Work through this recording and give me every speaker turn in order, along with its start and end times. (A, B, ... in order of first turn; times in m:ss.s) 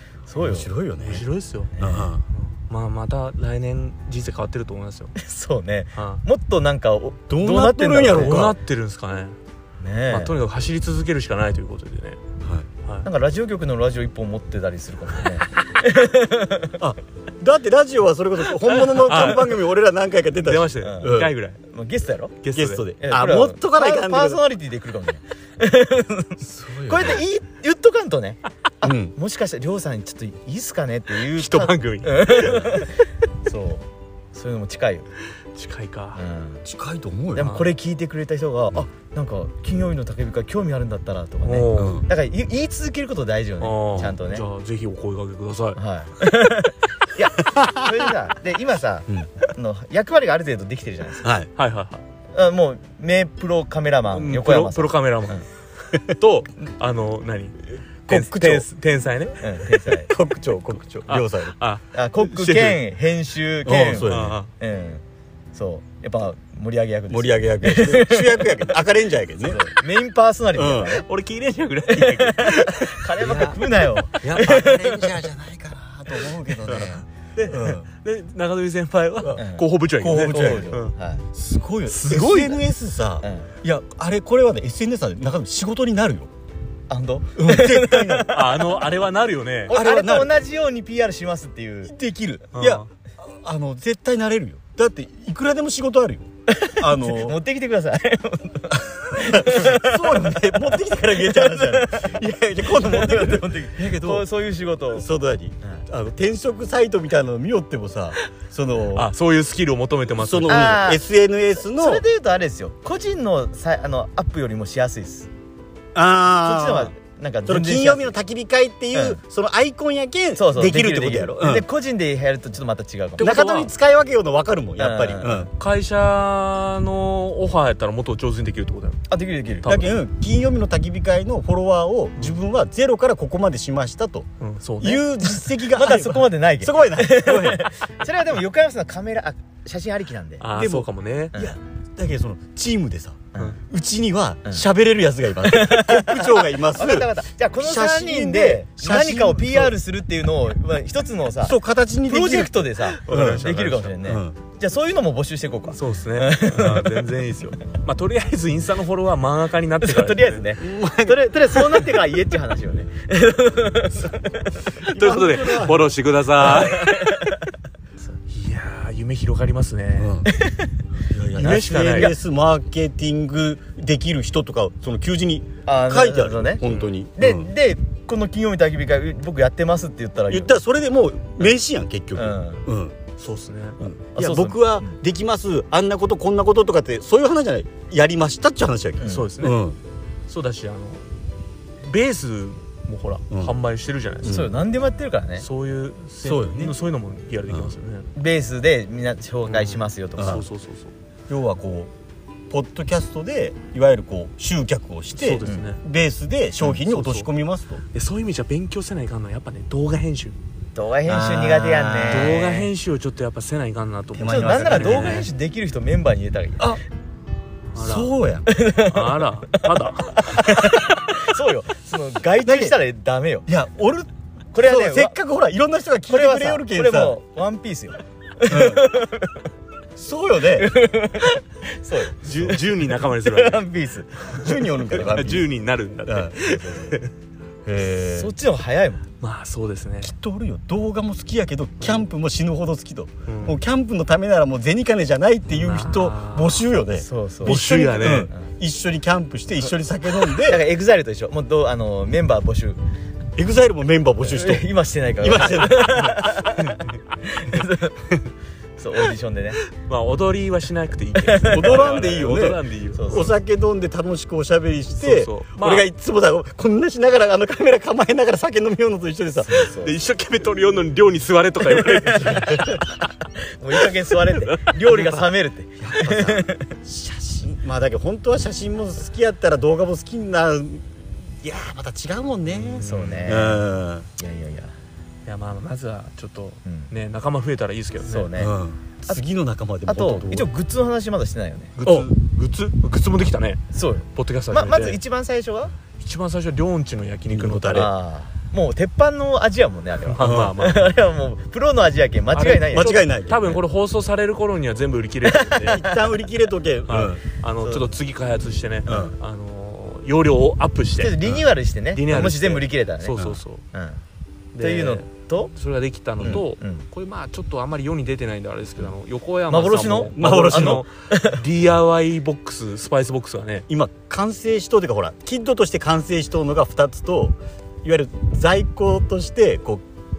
0:00.3-0:00.7 A
0:00.4-0:01.2 B
0:01.0-0:01.7 C
0:01.8-0:02.1 A
0:01.8-0:02.2 B
0:02.3-0:05.1 C
0:05.2-0:08.5 A
0:06.0-0:06.2 C
0:07.3-0:08.5 B
0:08.1-0:09.4 C
0:09.8-0:10.3 A
0:10.1-0:12.2 C
0:12.4-0:12.7 B
0:13.0-0:16.8 A
0:16.8-0:21.3 B
0:18.6-0:19.6 C
0:20.4-0:21.6 C
0:20.8-0:22.4 A
0:22.4-0:22.8 C
0:22.5-0:24.4 B
0:23.0-0:32.9 A
0:26.4-0:27.2 B
0:28.8-0:29.1 B
0:31.3-0:32.8 C
0:33.4-0:35.1 A
0:35.6-0:36.2 C
0:36.2-0:36.6 A
0:36.6-0:37.6 B
0:37.3-0:44.4 A
0:37.4-0:37.7 C
0:41.4-0:42.0 C
0:41.8-0:42.0 B
0:43.6-0:45.8 C
0:45.8-0:51.3 A
0:47.4-0:47.9 B
0:51.2-0:51.5 B
0:51.6-0:52.0 C
0:52.3-0:55.4 A
0:54.1-0:59.4 C
0:58.1-0:58.7 B
0:59.4-1:00.1 A
1:00.0-1:01.5 B
1:01.1-1:02.8 C
1:01.9-1:05.0 A
1:03.6-1:04.4 B
1:04.0-1:04.5 C
1:05.5-1:08.7 A
1:07.1-1:09.6 B
1:09.4-1:11.0 A
1:10.5-1:11.0 B
1:11.0-1:13.5 C
1:11.9-1:15.2 A
1:13.2-1:13.6 B
1:14.2-1:17.8 B
1:16.7-1:20.9 C
1:19.4-1:21.2 A
1:20.0-1:20.7 B
1:21.3-1:26.3 B
1:21.9-1:22.6 C
1:23.2-1:23.5 A
1:26.9-1:28.5 A
1:27.4-1:28.3 B
1:28.3-1:29.7 C
1:29.7-1:31.9 A
1:29.7-1:30.3 B
1:31.8-1:37.4 B
1:32.5-1:32.9 C
1:36.5-1:40.4 A
1:39.1-1:44.2 B
1:41.1-1:45.1 A
1:44.9-1:49.1 B
1:48.9-1:50.8 C
1:50.2-1:52.0 B
1:50.5-1:51.0 A
1:51.6-1:55.3 A
1:55.9-1:56.9 B
1:56.4-1:58.2 A
1:57.4-2:01.6 B
1:58.9-1:59.2 A
2:00.4-2:03.4 A
2:03.2-2:03.7 C
2:03.2-2:05.5 B
2:04.8-2:05.5 A
2:05.6-2:09.0 C
2:09.1-2:09.8 A
2:09.6-2:09.9 C
2:09.6-2:14.3 B
2:14.4-2:15.4 C
2:14.8-2:17.7 B
2:15.7-2:20.4 A
2:20.4-2:21.3 C
2:20.5-2:29.7 B
2:25.4-2:37.1 A
2:31.4-2:32.5 B
2:33.0-2:33.9 C
2:33.1-2:33.4 B
2:34.0-2:34.4 B
2:35.7-2:40.4 C
2:39.8-2:44.6 A
2:40.6-2:41.6 B
2:44.8-2:45.9 B
2:44.8-2:47.1 C
2:46.5-2:47.4 A
2:48.3-2:50.2 C
2:50.0-2:50.3 B
2:50.3-2:50.6 A
2:51.0-2:57.5 B
2:51.4-2:52.1 C
2:51.4-2:52.1 A
2:55.6-2:56.6 A
2:57.2-3:00.5 A
3:00.3-3:03.0 B
3:02.2-3:02.6 A
3:03.2-3:03.8 C
3:03.8-3:09.8 B
3:04.1-3:04.9 A
3:09.0-3:09.3 A
3:09.0-3:09.6 C
3:10.3-3:11.2 C
3:11.8-3:14.4 C
3:13.3-3:13.6 B
3:14.2-3:14.5 B
3:14.2-3:15.4 A
3:15.4-3:18.1 C
3:16.2-3:16.7 B
3:18.2-3:20.4 A
3:19.5-3:20.9 C
3:20.2-3:20.4 B
3:21.3-3:21.9 B
3:22.5-3:27.8 B
3:25.1-3:25.8 C
3:26.6-3:27.3 C
3:27.9-3:30.4 C
3:30.7-3:32.7 A
3:31.0-3:32.4 B
3:32.1-3:35.3 C
3:34.1-3:35.3 B
3:34.2-3:36.8 A
3:37.7-3:38.1 C
3:37.8-3:38.5 B
3:38.5-3:39.3 A
3:38.7-3:40.7 C
3:40.2-3:43.5 A
3:42.4-3:42.8 B
3:43.5-3:47.2 B
3:44.5-3:45.2 A
3:46.1-3:49.4 A
3:48.4-3:48.9 B
3:50.0-3:50.7 B
3:50.5-3:54.3 A
3:52.2-3:53.6 C
3:54.2-3:57.1 C
3:54.3-3:55.5 B
3:56.0-3:57.0 B
3:57.6-3:58.3 B
3:58.1-3:59.0 A
3:59.2-4:00.1 C
4:00.0-4:10.6 B
4:03.3-4:03.6 C
4:05.5-4:06.6 C
4:07.0-4:08.5 A
4:07.4-4:08.3 C
4:10.4-4:12.8 A
4:13.4-4:14.7 B
4:14.2-4:16.7 A
4:15.2-4:16.7 B
4:17.2-4:18.1 A
4:18.8-4:19.6 A
4:19.8-4:23.3 C
4:21.2-4:21.9 A
4:21.5-4:29.6 B
4:23.0-4:23.3 A
4:24.9-4:25.9 C
4:29.4-4:30.0 A
4:29.8-4:33.0 C
4:32.2-4:32.8 A
4:33.5-4:36.7 A
4:34.4-4:35.3 C
4:35.8-4:44.1 B
4:42.5-4:43.4 C
4:42.8-4:43.6 A
4:44.2-4:44.7 A
4:45.2-4:48.3 C
4:46.6-4:46.9 A
4:48.0-4:48.5 A
4:48.4-4:50.5 B
4:49.8-4:51.7 A
4:51.7-4:53.6 C
4:53.7-4:55.7 A
4:54.1-4:55.0 C
4:56.0-4:57.9 C
4:57.3-4:57.9 B
4:57.7-5:03.0 A
5:00.0-5:00.9 C
5:00.2-5:00.5 B
5:02.3-5:05.8 C
5:02.6-5:03.6 B
5:05.3-5:06.0 A
5:05.6-5:07.2 B
5:06.9-5:11.3 C
5:07.6-5:07.9 A
5:08.9-5:09.1 B
5:11.0-5:14.0 A
5:11.9-5:13.6 C
5:14.5-5:23.6 C
5:14.6-5:15.5 A
5:16.2-5:16.8 A
5:19.5-5:21.4 A
5:20.1-5:20.8 B
5:23.7-5:29.8 B